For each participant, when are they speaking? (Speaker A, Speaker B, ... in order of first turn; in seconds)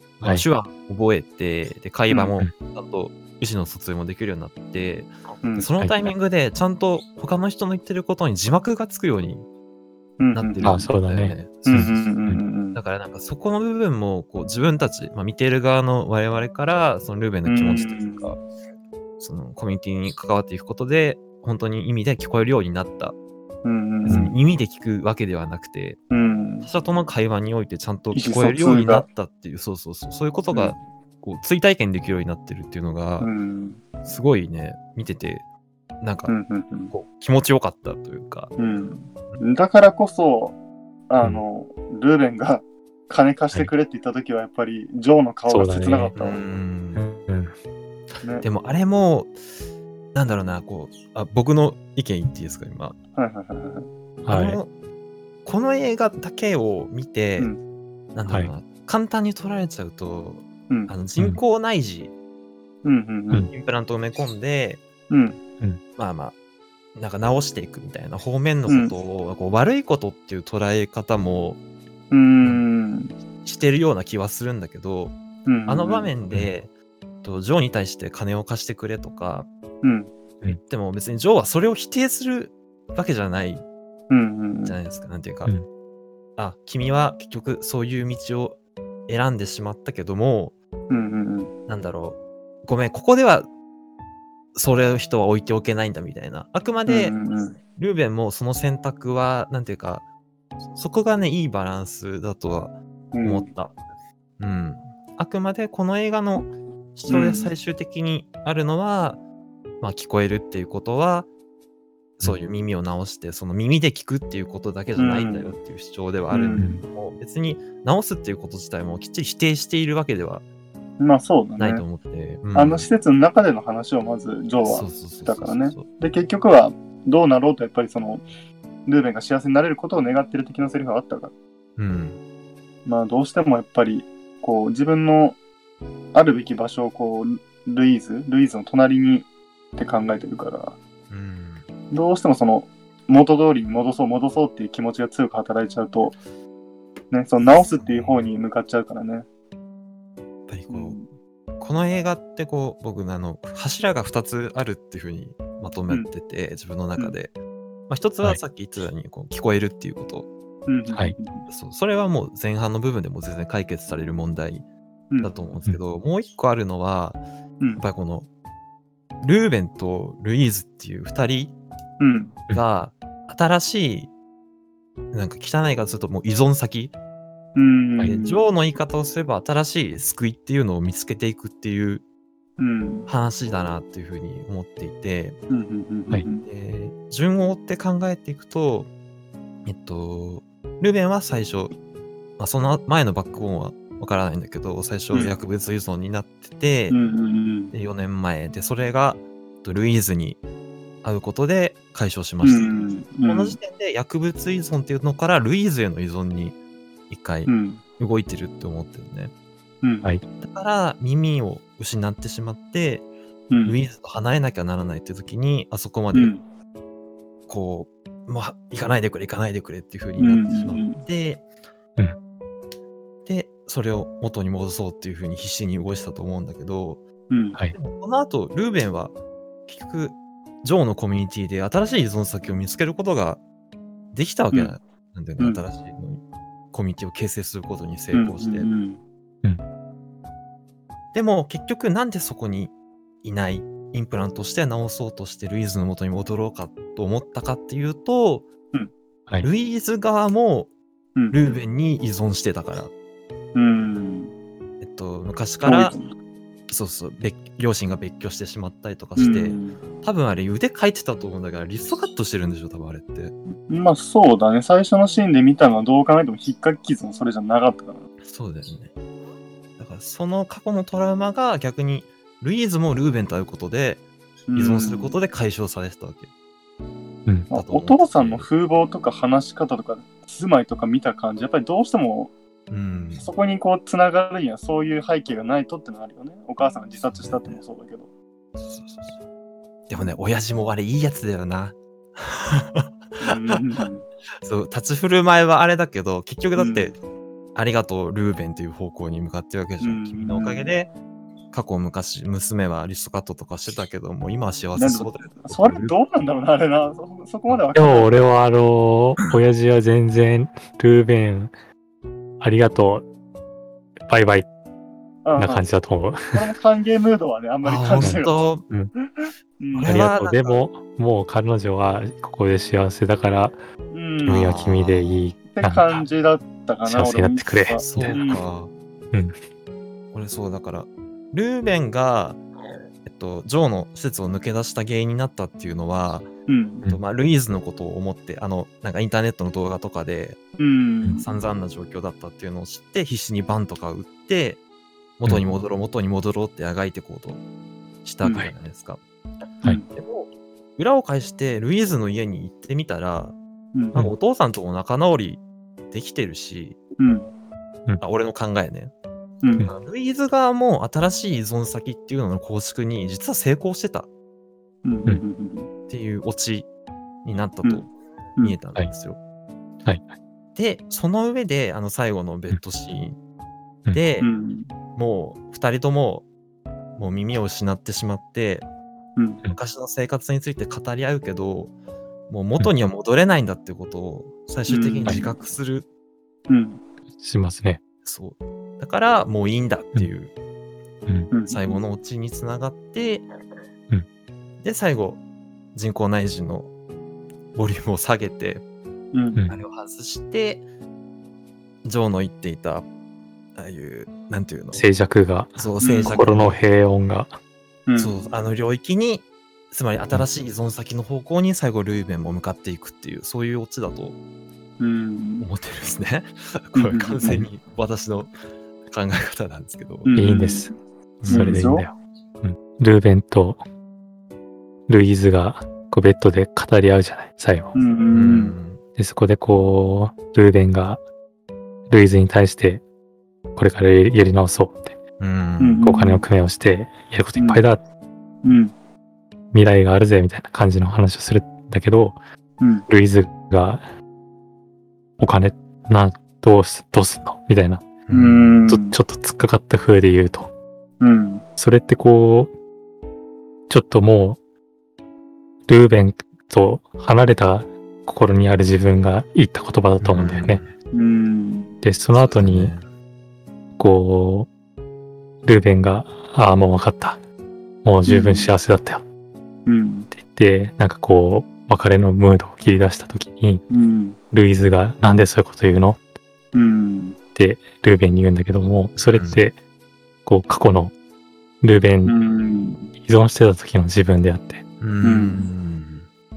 Speaker A: 0.2-9.5, 10.3-12.1, 12.7-18.4, 19.2-23.2, 24.1-26.0, 26.6-33.3, 34.0-35.5, 36.0-36.3, 36.9-38.6, 46.2-47.1, 48.4-49.4, 50.1-53.0, 54.3-54.7, 55.5-57.5, 58.1-62.1, 63.5-64.8, 66.0-66.3, 67.0-71.6, 73.4-76.7, 77.2-79.5, 80.6-83.6, 84.6-85.5, 86.4-90.5, 91.7-93.5, 94.5-97.2, 97.7-100.0, 100.7-103.8, 104.4-109.2, 109.8-111.3, 112.2-120.5, 121.6-122.9, 124.6-125.9, 131.8-132.2, 141.1-141.7, 147.4-148.2, 150.5-151.0, 151.6-157.3, 157.9-160.3, 161.5-164.7, 165.2-167.2, 167.8-168.3, 169.2-171.6, 172.5-174.1, 175.1-176.9, 178.0-182.0, 183.1-185.4, 186.4-188.9, 189.7-191.7, 192.4-197.0, 197.7-200.4, 201.0-206.6, 207.1-209.3, 210.4-213.1, 213.6-216.3, 217.5-221.4, 223.3-227.0, 227.7-229.1, 229.7-233.4, 234.1-238.7, 241.1-248.5, 249.4-250.7, 251.3-252.9, 254.8-256.0, 256.7-263.4, 268.2-268.9, 269.8-274.0, 274.6-276.3, 277.5-278.5, 282.7-283.3, 287.1-287.6, 288.6-289.2, 289.9-293.8, 294.4-297.0, 297.6-300.9, 301.5-305.9, 317.6-318.7, 319.8-320.6, 324.3-325.2, 327.8-328.7, 330.1-332.4, 333.0-336.3, 336.9-340.4, 341.2-344.6, 345.2-347.4, 348.0-349.0, 349.9-353.4, 353.9-356.8, 358.0-358.9, 359.6-364.1, 365.9-366.7, 367.2-369.2, 370.6-373.2, 373.9-374.3, 374.9-376.3, 377.0-378.7, 379.5-381.7, 382.3-385.9, 388.0-390.3, 391.5-393.3, 394.6-395.2, 395.7-396.7, 397.5-398.6, 399.5-400.7, 401.8-402.9, 403.6-404.9, 405.6-406.6, 408.0-414.2, 415.4-418.3, 418.9-420.1, 421.2-421.7, 428.1-428.8, 435.2-435.9, 448.1-448.7, 460.0-460.7, 462.1-462.9, 479.0-479.5, 484.8-486.1
Speaker B: 5.4-5.7, 10.2-10.9, 11.6-12.8, 17.4-18.4, 23.6-24.4, 26.1-26.7, 28.1-29.1, 30.5-30.8, 33.2-33.8, 36.3-36.9, 38.6-40.6, 41.1-46.4, 53.2-53.9, 62.8-63.5, 65.1-65.4, 68.7-69.0, 72.1-73.1, 75.5-76.1, 79.8-80.1, 84.1-84.8, 90.9-91.5, 96.9-97.6, 103.1-103.5, 107.1-107.5, 115.0-115.5, 116.3-116.8, 121.0-121.8, 122.5-128.3, 128.9-131.3, 132.8-135.4, 136.1-140.8, 141.9-146.2, 147.1-149.3, 150.7-151.1, 160.7-161.5, 172.0-172.4, 177.6-178.4, 182.6-183.1, 185.5-186.5, 196.9-197.7, 202.4-203.6, 207.5-207.8, 209.8-210.1, 213.5-213.8, 216.1-216.4, 220.2-221.0, 227.3-227.6, 238.1-239.0, 251.2-251.6, 253.5-254.3, 255.6-256.1, 259.2-259.8, 263.7-268.0, 274.5-275.1, 277.5-282.3, 283.2-288.1, 293.2-294.1, 296.6-296.9, 299.8-300.7, 304.8-308.3, 315.2-315.7, 316.3-318.3, 319.0-320.0, 323.9-324.5, 325.5-328.4, 336.5-336.9, 340.6-341.4, 348.2-348.5, 353.7-354.1, 357.0-357.3, 359.4-359.7, 364.8-365.7, 367.6-368.6, 374.2-374.7, 379.2-379.4, 384.7-385.4, 386.5-386.8, 391.3-391.8, 399.1-399.4, 405.8-406.3, 407.9-408.2, 414.8-415.5, 416.8-417.5, 420.1-420.7, 421.3-421.9, 427.7-428.6, 435.6-436.3, 437.4-437.6, 438.4-438.7, 442.6-442.9, 448.1-449.0, 451.0-451.4, 460.9-461.7, 468.1-468.5, 469.7-470.1, 473.7-474.2, 476.5-477.2, 482.1-482.9, 485.0-485.5
Speaker C: 5.8-6.1, 10.6-12.4, 45.5-46.1, 47.0-47.5, 54.3-54.6, 116.6-116.8, 307.8-311.5, 312.4-313.1, 314.1-314.5, 315.4-316.4, 318.0-318.9, 319.8-323.6, 324.3-326.0, 326.9-328.2, 369.9-370.1, 387.2-387.8, 404.7-407.4, 420.2-420.7, 421.2-423.6, 424.9-427.7, 429.0-431.0, 431.9-432.8, 433.6-435.0, 435.8-437.8, 439.5-442.2, 442.9-443.9, 445.2-447.9, 448.7-450.5, 451.6-452.5, 453.7-454.4, 455.7-460.6, 461.8-462.8, 463.8-464.5, 465.4-467.2, 467.8-469.0, 470.1-473.6, 474.3-476.0, 477.4-479.6, 480.3-480.9, 481.6-482.1, 483.0-484.6